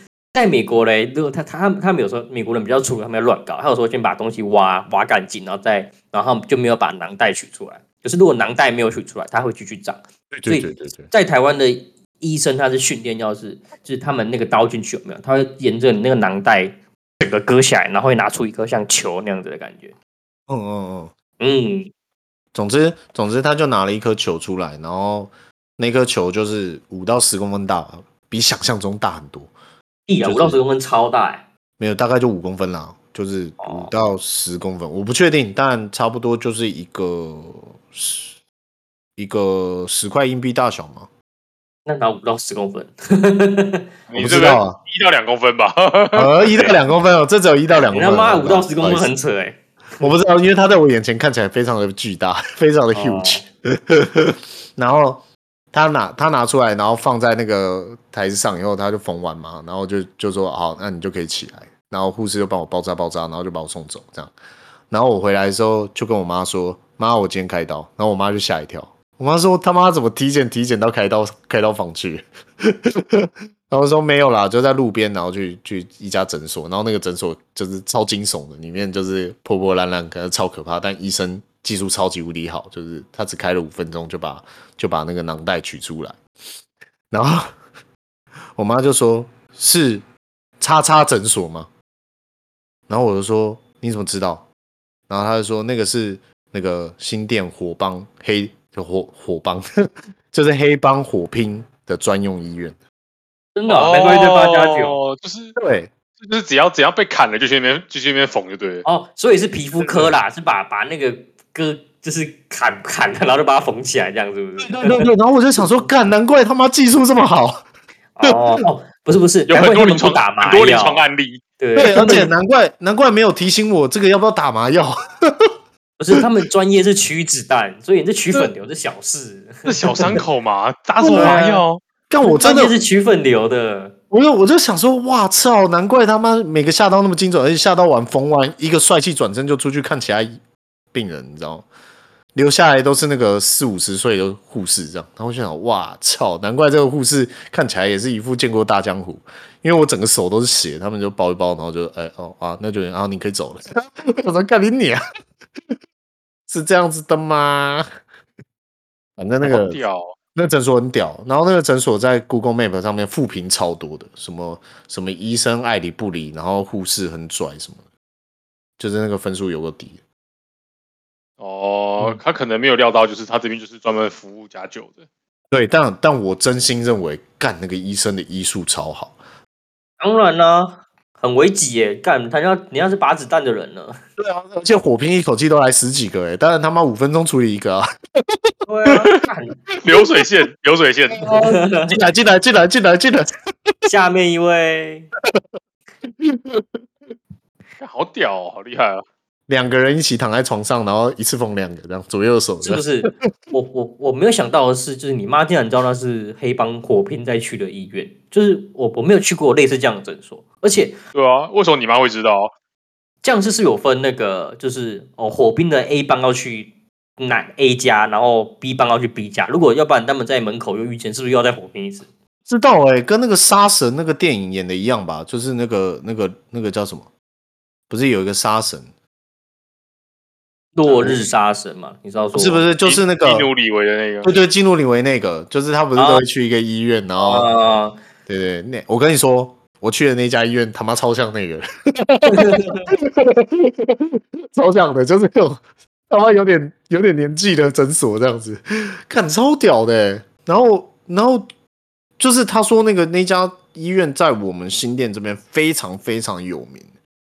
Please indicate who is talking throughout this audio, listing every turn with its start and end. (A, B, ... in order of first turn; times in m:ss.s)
0:00.3-0:19.9 A
0:10.3-0:11.1 B
0:20.5-0:21.1 B
0:21.4-0:21.9 A
0:22.5-0:29.5 B
0:30.1-0:31.4 A
0:30.2-0:30.6 B
0:31.8-0:38.4 B
0:33.6-0:33.9 A
0:39.2-0:41.1 B
0:41.9-0:43.9 A
0:44.1-0:46.5 C
0:44.2-0:44.8 B
0:46.1-0:49.1 B
0:47.8-0:49.6 A
0:50.0-1:04.3 B
0:52.9-0:53.4 A
1:04.9-1:26.2 B
1:27.1-1:27.5 B
1:28.6-1:30.0 B
1:30.6-1:31.7 B
1:32.9-1:34.5 B
1:35.1-1:39.6 B
1:40.3-1:42.8 B
1:43.6-1:45.0 A
1:43.7-1:45.6 C
1:45.6-1:45.9 B
1:46.2-1:48.8 C
1:48.8-1:55.1 A
1:49.8-1:50.2 B
1:54.6-1:57.6 B
1:58.2-2:01.0 A
1:58.2-1:58.6 B
1:59.5-2:01.4 C
2:01.6-2:02.3 A
2:01.8-2:05.5 B
2:06.0-2:09.9 A
2:09.7-2:11.8 C
2:11.0-2:11.4 B
2:11.1-2:11.6 A
2:12.1-2:12.8 B
2:12.2-2:14.0 A
2:14.1-2:20.3 B
2:20.9-2:21.7 B
2:22.4-2:35.0 B
2:36.5-2:37.9 B
2:39.2-2:39.8 B
2:39.4-2:40.1 C
2:40.4-2:47.8 B
2:48.8-2:50.0 B
2:51.4-2:55.1 C
2:55.5-2:59.2 B
3:00.0-3:04.0 A
3:04.2-3:08.4 B
3:08.7-3:09.6 A
3:09.8-3:11.4 C
3:11.2-3:13.3 B
3:11.2-3:12.0 A
3:13.9-3:15.1 A
3:16.2-3:16.7 B
3:17.8-3:19.0 C
3:19.5-3:23.1 B
3:22.6-3:31.0 A
3:31.1-3:32.5 C
3:33.2-3:42.1 A
3:42.5-3:47.1 B
3:47.9-3:48.9 B
3:50.8-3:52.7 A
3:50.9-3:51.2 B
3:52.4-3:53.5 B
3:52.8-3:54.3 C
3:54.2-3:57.5 B
3:56.0-3:56.2 A
3:57.1-3:58.0 A
3:58.3-4:11.5 B
4:02.3-4:02.9 A
4:12.2-4:16.9 B